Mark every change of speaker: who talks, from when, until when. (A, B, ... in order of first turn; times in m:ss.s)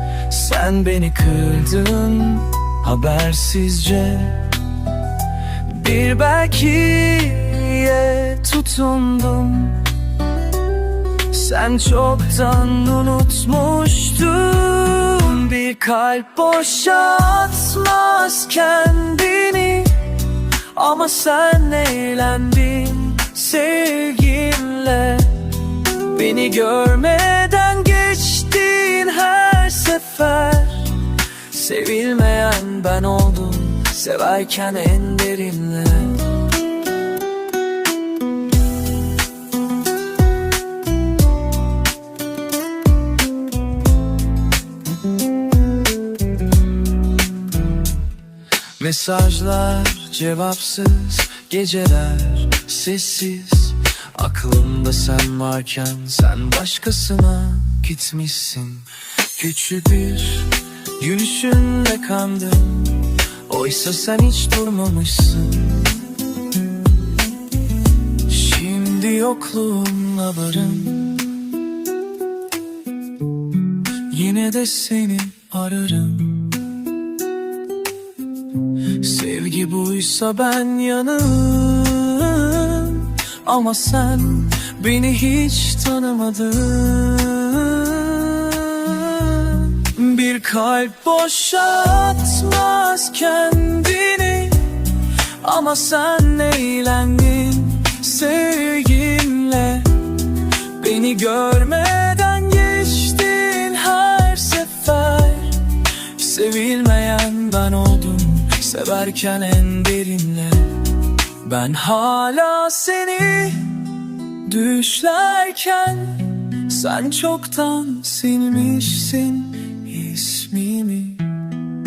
0:00.2-0:04.6 A
0:05.6-0:10.0 A
0:11.3-0:36.4 A
0:48.8-1:06.0 A
1:08.2-1:11.3 A
1:13.9-1:16.8 A
1:18.7-2:01.6 A